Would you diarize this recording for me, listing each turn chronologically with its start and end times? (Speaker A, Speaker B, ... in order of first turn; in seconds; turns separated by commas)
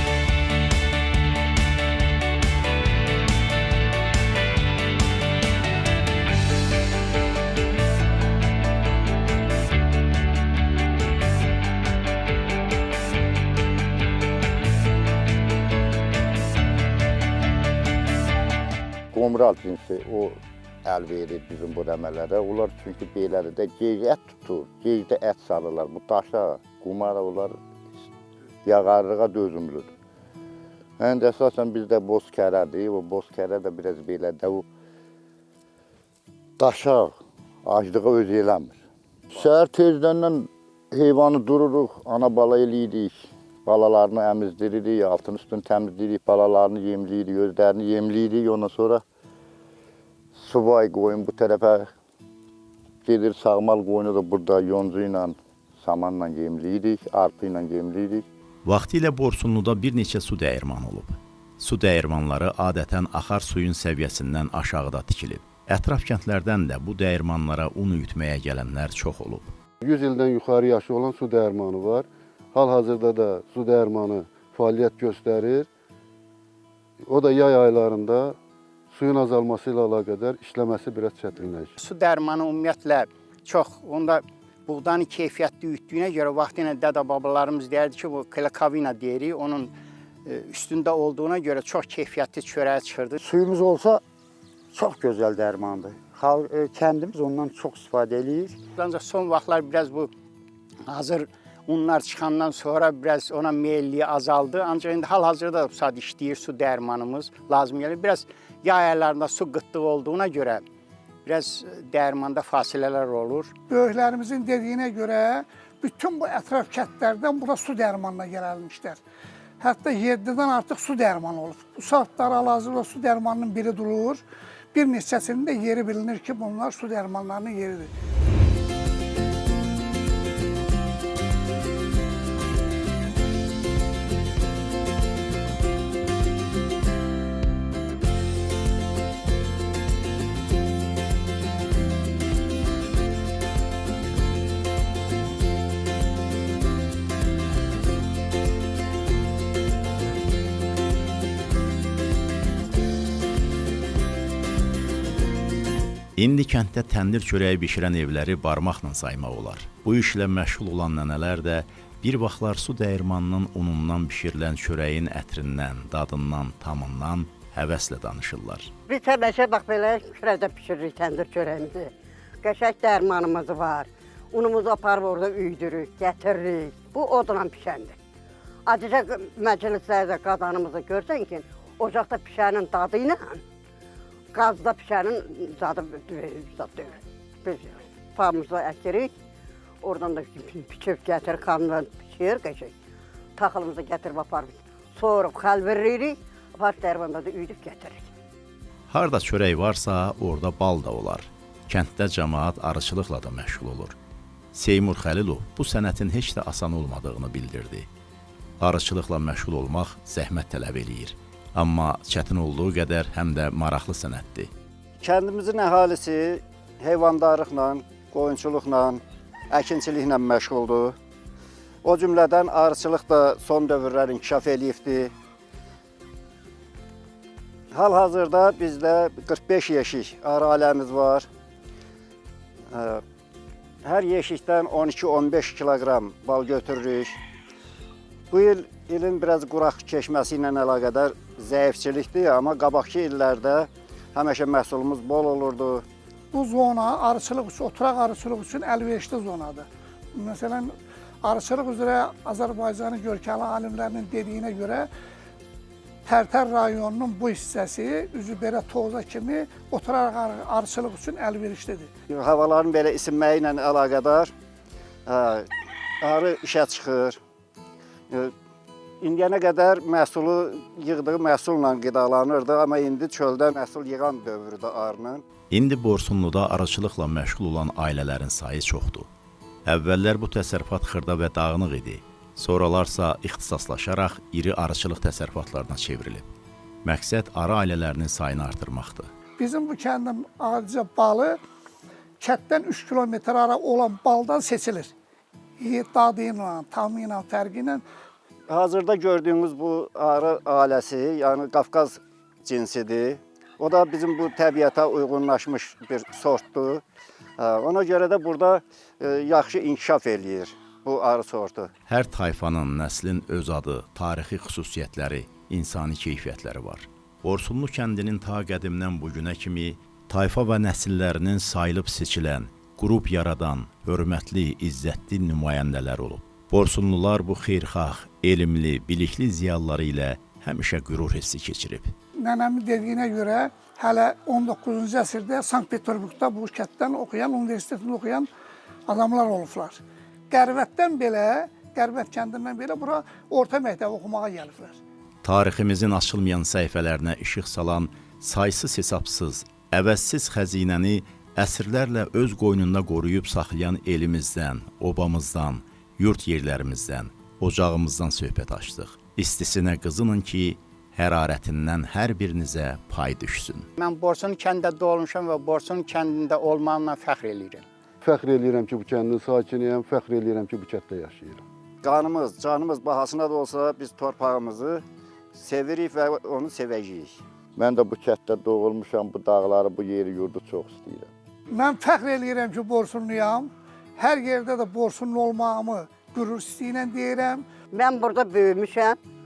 Speaker A: 19.1-27.6, Speaker A: 28.6-29.9, Speaker A: 31.0-34.6, Speaker A: 36.6-38.8, Speaker A: 39.3-49.0, Speaker A: 50.3-51.9, Speaker A: 53.0-58.2, Speaker B: 58.6-69.5, Speaker C: 69.8-75.7, Speaker C: 77.0-78.4, Speaker C: 78.9-81.8, Speaker D: 81.8-89.7, Speaker D: 90.2-93.2, Speaker E: 93.2-94.0, Speaker E: 94.7-98.6, Speaker D: 98.8-100.1, Speaker D: 100.8-110.6, Speaker D: 111.2-113.5, Speaker F: 113.7-119.0, Speaker F: 119.6-124.2, Speaker F: 124.7-127.9, Speaker B: 156.2-168.7, Speaker G: 168.9-177.9, Speaker G: 178.7-183.4, Speaker G: 184.3-189.1, Speaker G: 189.8-192.7, Speaker G: 193.4-198.1, Speaker B: 198.9-203.9, Speaker B: 204.5-207.9, Speaker B: 208.6-214.5, Speaker H: 215.0-220.9, Speaker H: 221.8-225.1, Speaker H: 227.7-231.3, Speaker H: 232.7-233.0, Speaker H: 233.8-237.2, Speaker H: 238.3-245.8, Speaker F: 246.3-254.9, Speaker F: 256.1-261.9, Speaker H: 262.1-264.3, Speaker H: 265.1-265.5, Speaker H: 266.0-267.2, Speaker H: 269.0-275.2, Speaker B: 275.5-279.1, Speaker B: 279.6-286.3, Speaker B: 286.8-289.1, Speaker F: 289.4-291.4, Speaker F: 292.2-294.9, Speaker F: 295.6-297.8, Speaker H: 298.5-306.8, Speaker H: 307.4-311.7, Speaker B: 311.9-331.9, Speaker F: 332.2-338.3, Speaker F: 338.9-344.8, Speaker B: 345.2-363.7, Speaker D: 363.8-367.6, Speaker C: 368.0-371.4, Speaker H: 371.8-374.8, Speaker H: 375.3-377.2, Speaker A: 377.6-381.1, Speaker F: 381.5-387.4, Speaker G: 387.7-389.0